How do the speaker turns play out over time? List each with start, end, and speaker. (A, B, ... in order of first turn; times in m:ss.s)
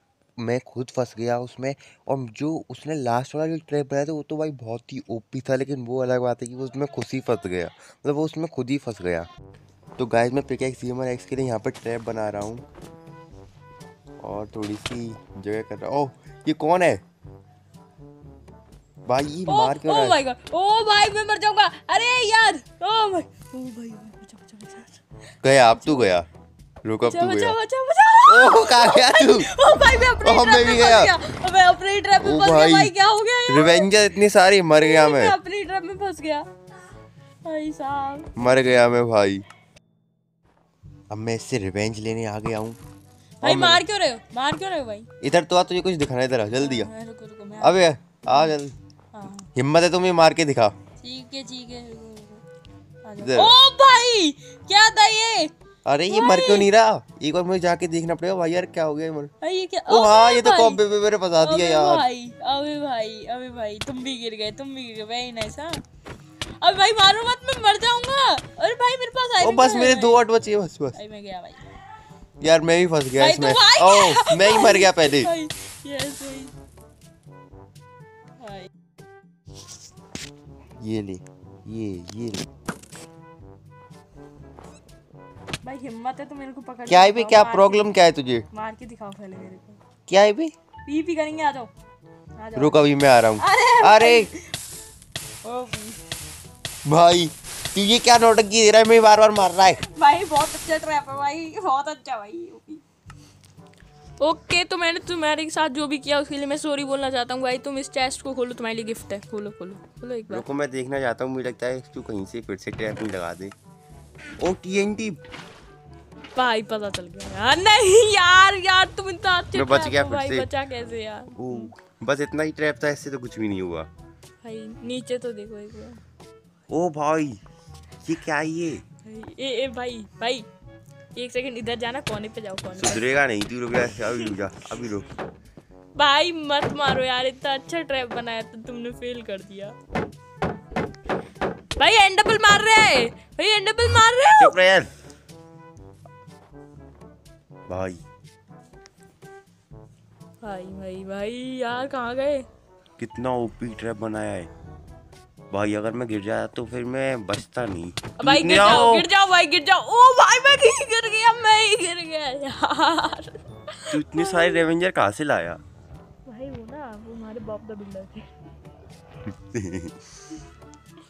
0:00.4-0:09.3 A
0:10.0-0:12.6 A
0:14.2-0:17.0 A
0:19.1-0:20.2 A
0:19.5-0:25.0 B
0:25.4-0:26.3 A
0:25.7-0:26.2 B
0:26.8-0:27.6 A
0:27.0-0:33.9 B
0:28.3-0:29.5 A
0:30.2-0:31.1 A
0:32.2-0:32.9 A
0:33.5-0:35.4 A
0:34.7-0:36.5 B
0:37.4-0:38.3 B
0:38.4-0:39.4 A
0:41.1-0:42.8 A
0:43.4-0:45.1 B
0:43.4-0:43.8 A
0:45.2-0:46.9 A
0:46.5-0:48.6 B
0:47.6-0:48.7 A
0:49.1-0:49.5 B
0:49.6-0:50.7 A
0:51.0-0:52.4 B
0:53.0-0:55.5 B
0:53.2-0:53.5 A
0:55.8-0:59.3 A
0:56.1-0:56.7 B
0:59.4-1:00.8 B
0:59.9-1:02.0 A
1:01.4-1:05.8 B
1:06.6-1:10.2 B
1:09.4-1:11.0 A
1:10.9-1:11.6 B
1:12.4-1:15.3 A
1:13.2-1:16.5 B
1:18.4-1:18.7 B
1:20.8-1:22.5 A
1:25.6-1:27.9 B
1:26.9-1:28.4 A
1:28.5-1:29.8 B
1:30.1-1:30.5 A
1:30.8-1:31.7 B
1:32.4-1:34.4 B
1:32.6-1:34.3 A
1:35.4-1:36.0 B
1:36.8-1:39.8 A
1:39.8-1:42.8 B
1:44.2-1:50.4 B
1:50.3-1:53.5 A
1:54.4-1:55.2 A
1:56.4-2:01.7 B
1:59.5-2:00.5 A
2:01.4-2:03.9 A
2:04.4-2:06.0 B
2:06.7-2:07.4 A
2:08.0-2:08.8 A
2:09.0-2:10.4 B
2:11.1-2:13.0 B
2:12.8-2:15.1 A
2:16.0-2:19.8 B
2:21.8-2:24.6 B
2:24.4-2:24.9 A
2:27.7-2:28.0 A
2:30.4-2:32.5 B
2:33.0-2:34.5 A
2:35.5-2:39.1 A
2:38.2-2:44.6 B
2:43.9-2:45.6 A
2:46.2-2:48.3 B
2:49.3-2:49.9 A